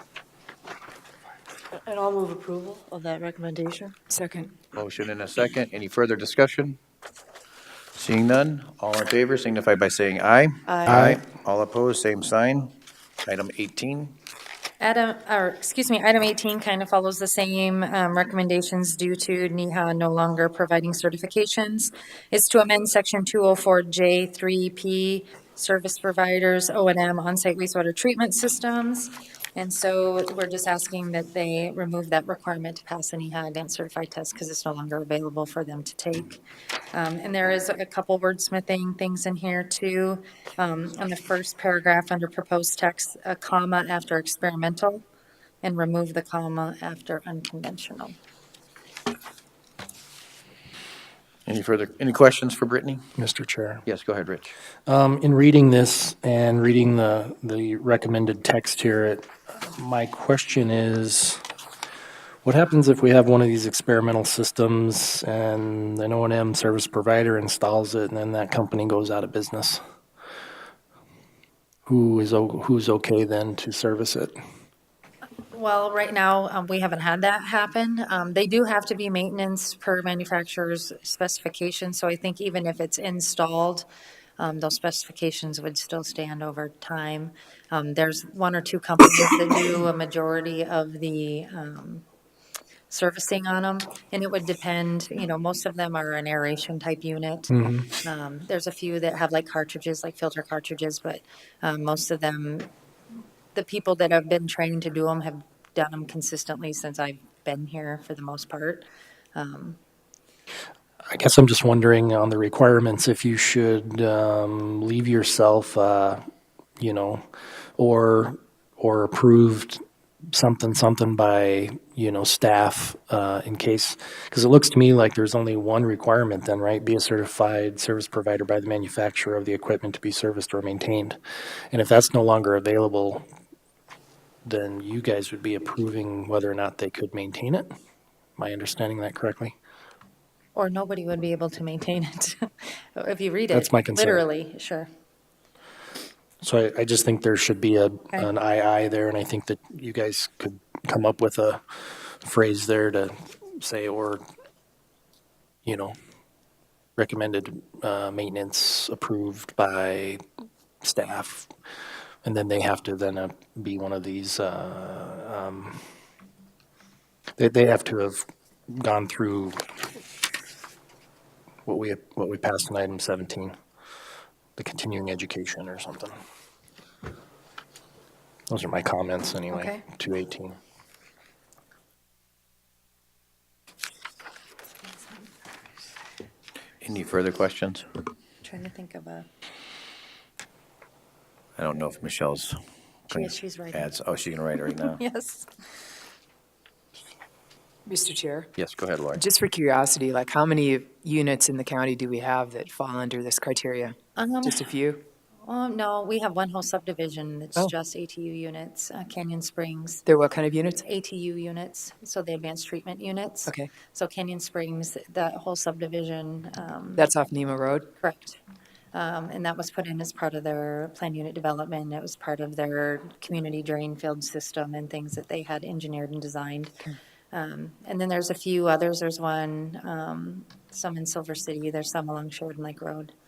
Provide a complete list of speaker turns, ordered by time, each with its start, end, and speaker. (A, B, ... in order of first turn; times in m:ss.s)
0:01.8-0:04.1 A
0:04.1-0:04.5 B
0:04.7-0:06.8 C
0:08.0-0:12.7 C
0:10.7-0:11.0 A
0:10.8-0:11.2 D
0:13.2-0:14.1 C
0:14.8-0:36.4 E
0:36.9-0:45.0 E
0:45.6-0:48.1 E
0:51.4-0:53.0 C
0:53.2-0:53.8 D
0:53.8-0:54.6 C
0:54.8-1:01.4 D
1:02.4-1:09.8 D
1:11.9-1:14.3 D
1:15.5-1:23.9 E
1:24.4-1:32.0 E
1:32.9-1:42.7 E
1:37.5-1:37.9 D
1:43.5-1:49.8 E
1:51.1-1:56.2 D
1:56.8-1:57.2 D
1:57.8-1:59.8 D
2:00.3-2:11.2 D
2:11.7-2:13.2 D
2:14.4-2:17.7 D
2:18.4-2:19.5 D
2:20.5-2:24.9 E
2:23.5-2:24.2 D
2:26.4-2:34.2 D
2:35.6-2:35.9 D
2:37.0-2:40.2 D
2:40.8-2:41.5 D
2:42.2-2:45.8 D
2:47.4-2:49.6 D
2:51.6-2:53.5 D
2:54.6-2:56.2 D
2:58.5-3:00.6 D
2:59.5-2:59.8 E
3:06.8-3:07.8 C
3:08.4-3:09.3 E
3:11.6-3:12.6 C
3:13.1-3:15.0 C
3:13.1-3:13.9 E
3:14.6-3:15.5 E
3:17.8-3:18.5 B
3:18.6-3:19.2 C
3:19.2-3:25.0 B
3:24.2-3:24.7 E
3:25.4-3:30.0 E
3:30.0-3:30.8 B
3:30.8-3:37.1 E
3:37.0-3:37.9 B
3:38.0-3:38.4 E
3:38.9-3:46.7 E
3:47.3-3:53.1 E